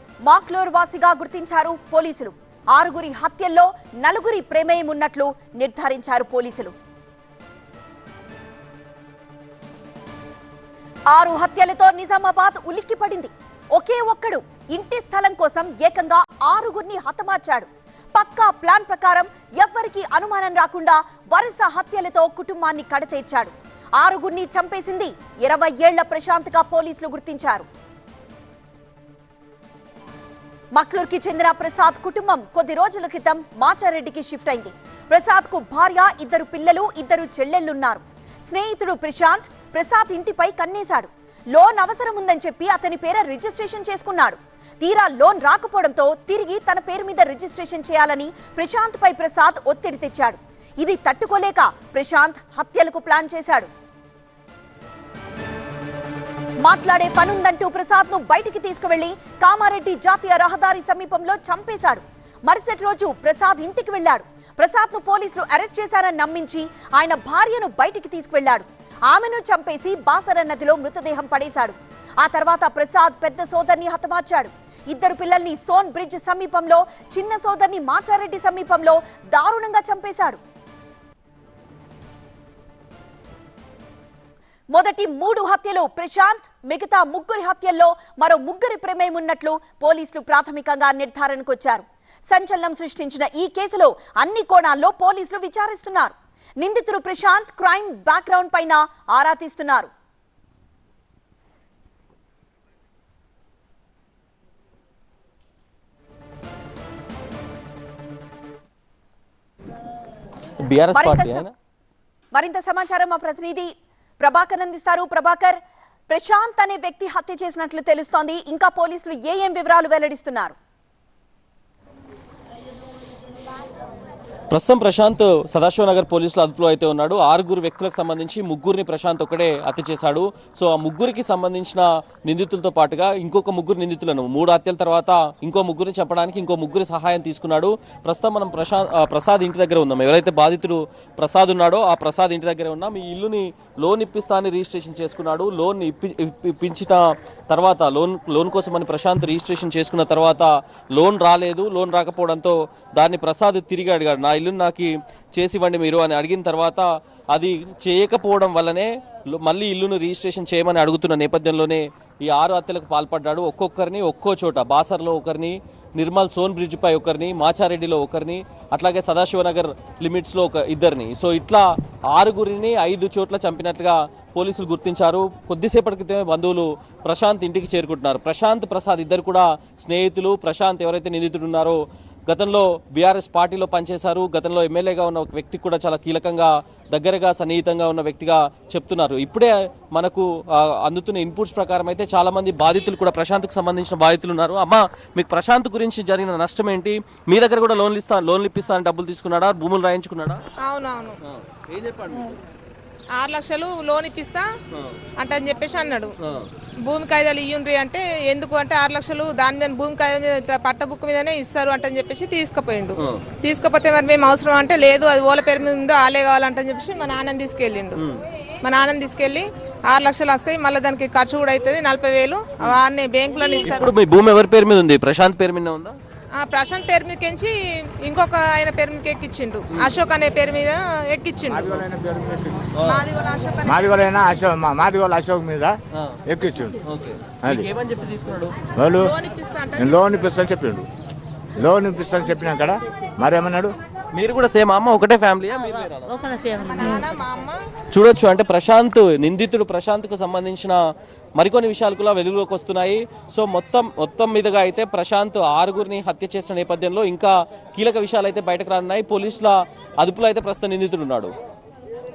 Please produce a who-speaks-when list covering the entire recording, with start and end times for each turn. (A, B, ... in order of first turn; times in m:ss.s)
0:00.2-0:06.7 A
0:11.1-0:27.7 A
0:30.7-0:53.7 A
0:56.6-1:20.4 A
1:24.7-1:39.9 A
1:50.7-1:51.5 B
1:50.9-1:51.5 A
1:52.3-2:00.6 A
2:04.5-3:20.4 B
3:20.6-3:21.2 C
3:21.3-3:22.3 B
3:23.2-3:24.5 C
3:25.2-3:26.1 C
3:26.8-3:38.0 C
3:33.0-3:33.2 B
3:38.6-3:43.9 C
3:43.6-3:46.0 B
3:46.4-3:51.8 C
3:51.5-3:52.7 D
3:52.8-3:53.0 B
3:52.8-3:54.0 C
3:53.6-3:56.8 D
3:56.8-3:58.5 B
3:58.8-3:59.1 D
3:59.0-4:00.1 C
3:59.8-4:00.9 D
4:01.6-4:03.7 D
4:04.1-4:06.6 B
4:06.6-4:07.6 C
4:07.9-4:10.8 B
4:11.4-4:21.3 B